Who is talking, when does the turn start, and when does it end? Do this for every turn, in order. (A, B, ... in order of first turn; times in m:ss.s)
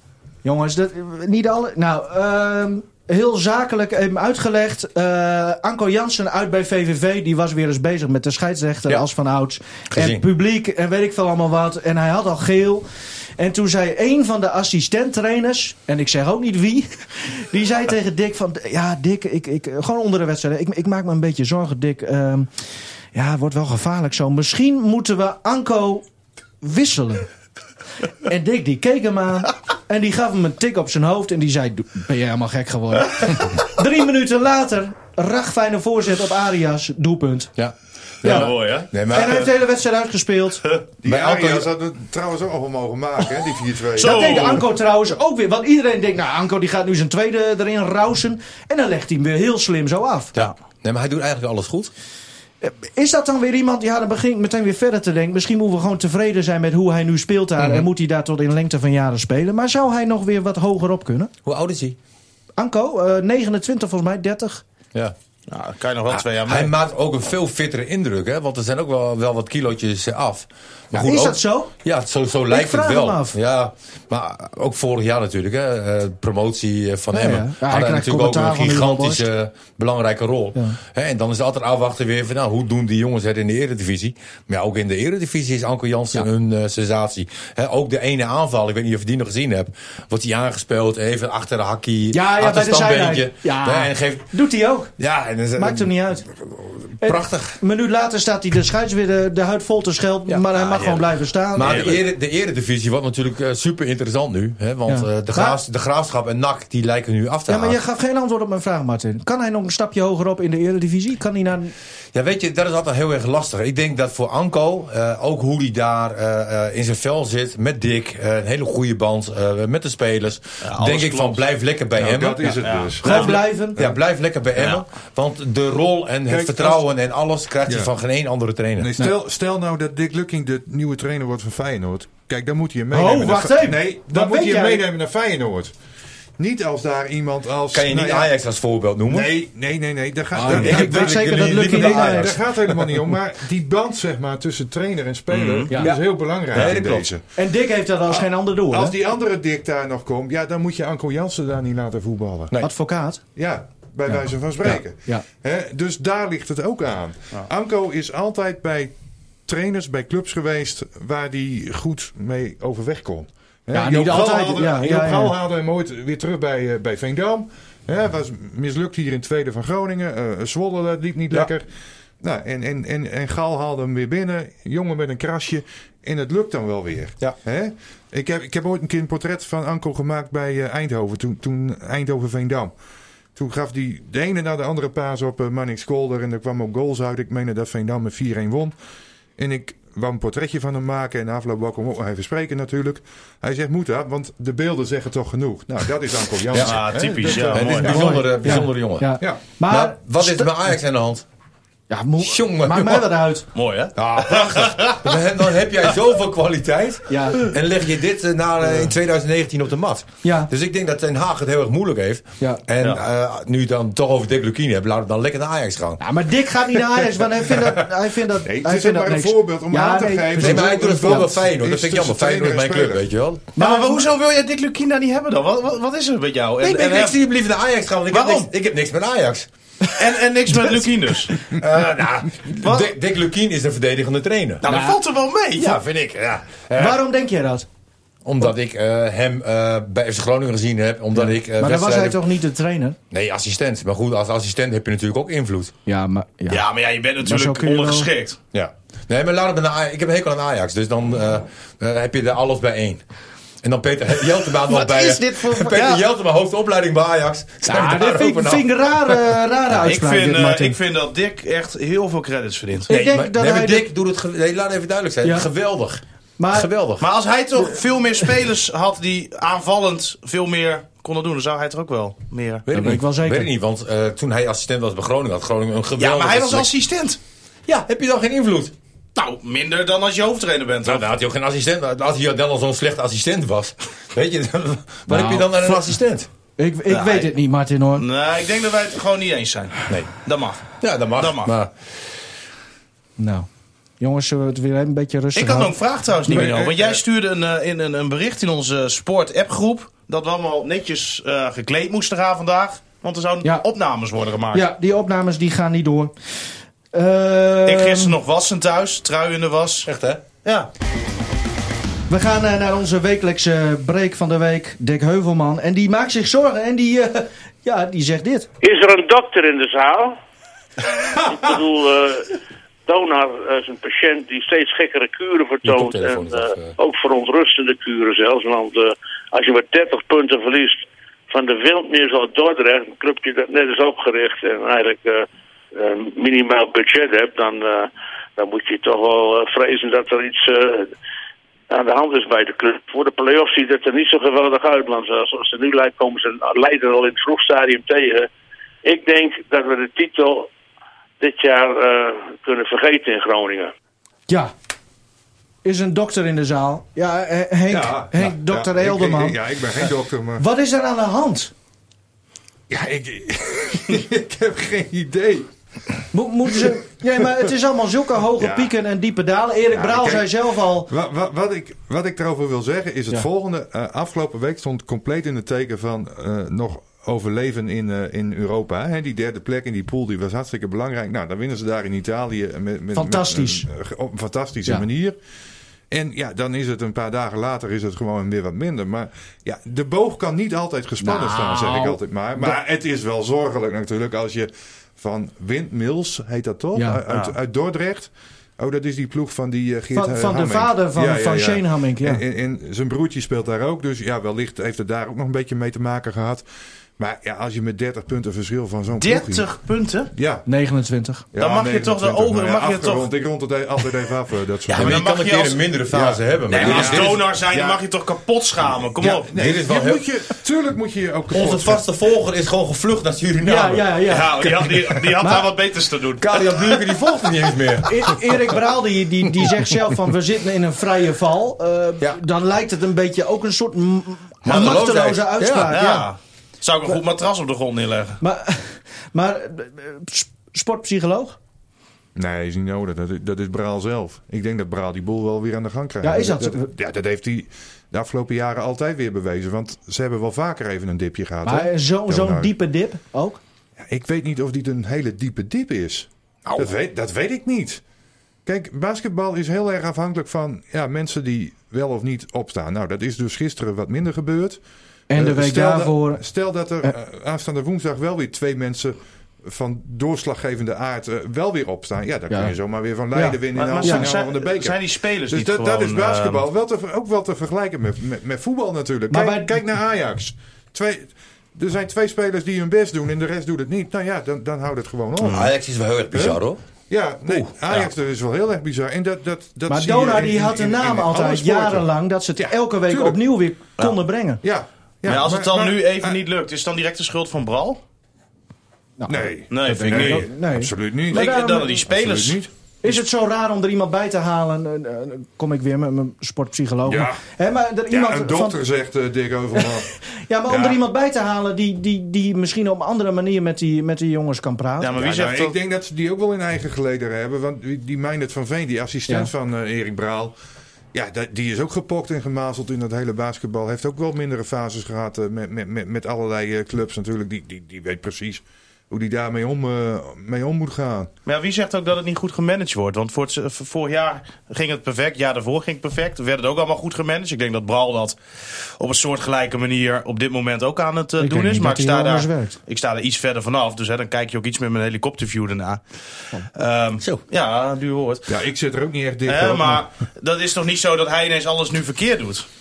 0:00.4-0:12.8 A
0:09.9-0:10.2 B
0:13.4-0:22.5 A
0:23.1-0:26.0 A
0:26.6-0:27.3 A
0:28.2-0:37.5 A
0:37.6-0:39.5 B
0:38.2-0:38.9 C
0:38.2-0:40.6 A
0:41.0-0:44.6 D
0:41.0-0:41.7 B
0:43.9-0:44.6 C
0:44.0-0:50.3 A
0:50.3-0:51.9 B
0:52.6-1:01.3 A
0:57.6-0:57.8 B
1:01.4-1:02.0 B
1:02.6-1:04.6 A
1:05.5-1:06.7 C
1:06.1-1:34.3 B
1:10.9-1:11.7 A
1:12.5-1:13.4 A
1:17.1-1:19.3 A
1:32.1-1:34.9 A
1:35.0-1:37.6 B
1:35.6-1:36.2 A
1:37.0-1:42.0 A
1:40.3-1:47.8 B
1:41.6-1:41.9 C
1:44.9-1:45.6 A
1:47.5-1:51.7 A
1:52.1-2:09.0 B
2:00.6-2:01.4 C
2:02.0-2:03.9 D
2:02.6-2:03.4 C
2:03.0-2:03.8 A
2:04.6-2:04.8 C
2:06.3-2:06.8 D
2:07.6-2:07.9 D
2:08.8-2:15.7 D
2:12.9-2:14.8 A
2:16.4-2:18.3 D
2:17.7-2:19.4 B
2:19.1-2:27.2 D
2:20.3-2:22.3 A
2:20.4-2:23.2 B
2:25.3-2:27.1 B
2:25.3-2:25.7 C
2:27.4-2:28.9 A
2:28.1-2:32.5 D
2:32.6-2:33.2 A
2:33.4-2:38.9 D
2:34.1-2:35.2 A
2:39.5-2:51.6 D
2:43.7-2:45.4 A
2:52.2-3:02.7 D
3:03.4-3:08.7 D
3:09.4-3:18.2 D
3:16.5-3:21.2 B
3:16.6-3:18.1 C
3:17.8-3:20.7 A
3:21.9-3:23.4 A
3:22.2-3:23.1 B
3:23.5-3:25.1 C
3:23.9-3:36.0 B
3:27.1-3:27.4 A
3:30.2-3:30.5 A
3:36.0-3:41.3 A
3:38.4-3:43.0 D
3:40.4-3:43.5 B
3:43.6-3:44.0 A
3:43.6-3:47.2 C
3:46.6-3:49.5 B
3:48.1-3:48.5 C
3:49.9-3:51.4 C
3:51.4-3:54.6 B
3:52.6-3:52.9 C
3:54.6-3:55.8 C
3:54.6-3:55.0 A
3:55.6-3:57.0 B
3:56.8-3:57.6 A
3:58.2-4:02.2 B
4:01.1-4:03.0 A
4:03.1-4:05.7 B
4:05.8-4:06.6 A
4:06.5-4:08.4 C
4:07.2-4:08.1 A
4:08.5-4:13.0 B
4:13.6-4:19.2 B
4:14.7-4:16.0 A
4:17.6-4:20.8 A
4:19.7-4:22.9 C
4:22.9-4:23.9 A
4:22.9-4:27.0 B
4:26.4-4:26.7 A
4:27.0-4:32.6 C
4:32.6-4:36.7 B
4:32.7-4:33.5 A
4:36.0-4:37.2 C
4:37.7-4:38.7 B
4:39.2-4:41.1 C
4:40.8-4:46.3 B
4:45.1-4:45.9 A
4:46.6-4:48.0 A
4:46.9-4:47.3 C
4:48.0-4:51.5 C
4:50.7-4:51.7 B
4:53.2-4:53.5 A
4:54.0-4:56.8 A
4:55.4-5:04.7 C
5:04.5-5:06.1 A
5:06.9-5:08.2 A
5:07.6-5:09.9 C
5:09.8-5:10.2 B
5:10.4-5:10.7 C
5:12.1-5:18.5 A
5:18.6-5:20.2 E
5:21.2-5:40.9 E
5:25.6-5:26.7 B
5:41.7-5:48.3 E
5:48.8-5:50.5 E
5:51.2-5:53.7 E
5:55.6-5:59.4 A
5:57.7-6:00.4 D
6:00.4-6:01.5 A
6:02.7-6:05.5 D
6:06.1-6:10.9 A
6:08.4-6:08.7 D
6:09.7-6:25.2 D
6:22.9-6:23.7 A
6:25.9-6:46.4 D
6:31.0-6:32.6 A
6:36.7-6:37.0 A
6:37.1-6:37.4 C
6:39.9-6:42.2 A
6:47.0-6:49.5 D
6:49.0-6:50.1 C
6:50.1-6:50.4 D
6:50.4-6:51.2 A
6:51.3-6:55.0 D
6:51.4-6:53.1 C
6:54.7-6:57.2 B
6:54.7-6:59.3 C
6:56.0-6:57.8 D
6:59.0-7:01.8 D
6:59.3-7:00.1 B
7:01.3-7:04.1 B
7:03.4-7:05.5 A
7:04.1-7:06.7 C
7:06.2-7:08.5 B
7:07.8-7:16.1 A
7:14.4-7:15.8 B
7:14.5-7:14.8 C
7:15.7-7:18.2 C
7:18.2-7:21.4 A
7:22.1-7:32.5 D
7:26.0-7:26.7 A
7:31.4-7:33.4 A
7:33.8-7:37.8 D
7:38.4-7:44.6 D
7:45.1-7:46.2 A
7:45.1-7:54.8 D
7:52.3-7:52.5 A
7:53.1-7:54.1 A
7:53.5-7:56.4 C
7:55.3-8:05.5 D
7:59.1-7:59.6 A
8:05.2-8:06.6 B
8:05.2-8:05.5 C
8:06.1-8:13.2 D
8:09.7-8:14.4 A
8:14.4-8:16.2 D
8:15.0-8:17.8 C
8:19.0-8:21.8 A
8:19.1-8:22.5 D
8:19.5-8:20.3 C
8:21.1-8:23.0 C
8:22.8-8:28.6 A
8:26.9-8:27.2 D
8:27.9-8:29.9 D
8:29.5-8:35.0 A
8:30.5-8:30.8 D
8:34.8-8:35.6 C
8:34.9-8:40.3 D
8:40.9-8:51.1 D
8:51.2-9:05.8 C
9:01.2-9:02.6 A
9:06.5-9:08.3 C
9:08.3-9:09.8 D
9:09.2-9:12.5 C